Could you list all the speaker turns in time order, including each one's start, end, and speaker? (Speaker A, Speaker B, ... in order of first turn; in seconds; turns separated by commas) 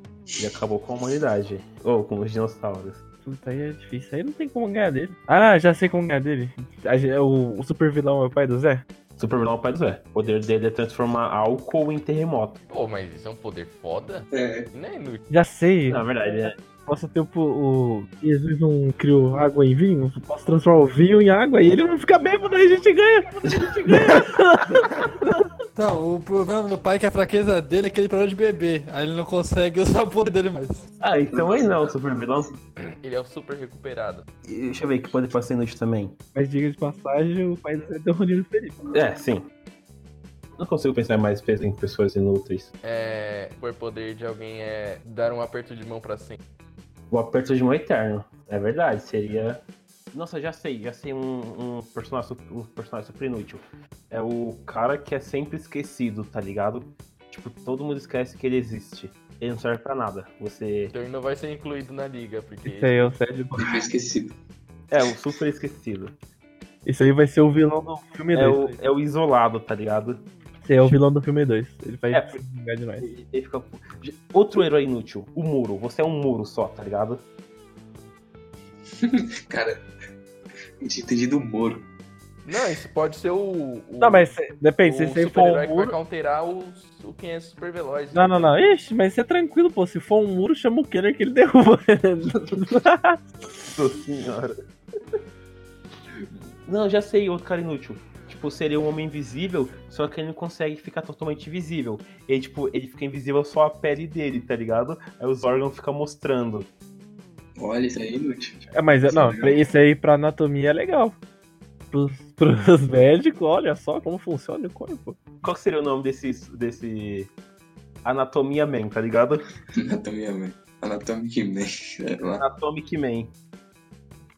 Speaker A: 0.3-3.0, Speaker B: 3.2-8.8, Speaker A: 9.2-12.6, Speaker C: 12.7-15.2, Speaker D: 14.3-14.7, Speaker B: 15.3-16.1, Speaker A: 15.9-16.5, Speaker B: 16.9-25.4, Speaker A: 23.4-24.3, Speaker E: 25.7-30.8, Speaker A: 31.0-32.5, Speaker D: 31.3-31.7, Speaker C: 32.8-34.2, Speaker A: 34.4-36.1, Speaker B: 36.3-38.8, Speaker A: 38.9-39.5, Speaker A: 40.6-42.7, Speaker C: 42.8-46.4, Speaker A: 47.1-60.9, Speaker C: 60.9-63.1, Speaker B: 62.6-63.8, Speaker D: 63.6-64.3, Speaker A: 64.9-66.1, Speaker B: 66.8-68.8, Speaker A: 68.3-70.2, Speaker B: 70.6-73.1, Speaker A: 72.1-72.4, Speaker A: 73.0-77.2, Speaker D: 79.0-79.8, Speaker D: 80.8-81.8, Speaker C: 82.4-88.5, Speaker B: 84.0-86.0, Speaker B: 88.1-93.2, Speaker A: 93.7-94.6, Speaker A: 96.7-106.7, Speaker D: 107.6-109.6, Speaker B: 108.7-111.2, Speaker B: 111.9-115.2, Speaker A: 115.4-117.3, Speaker A: 118.0-119.4, Speaker D: 119.8-122.4, Speaker A: 122.4-123.3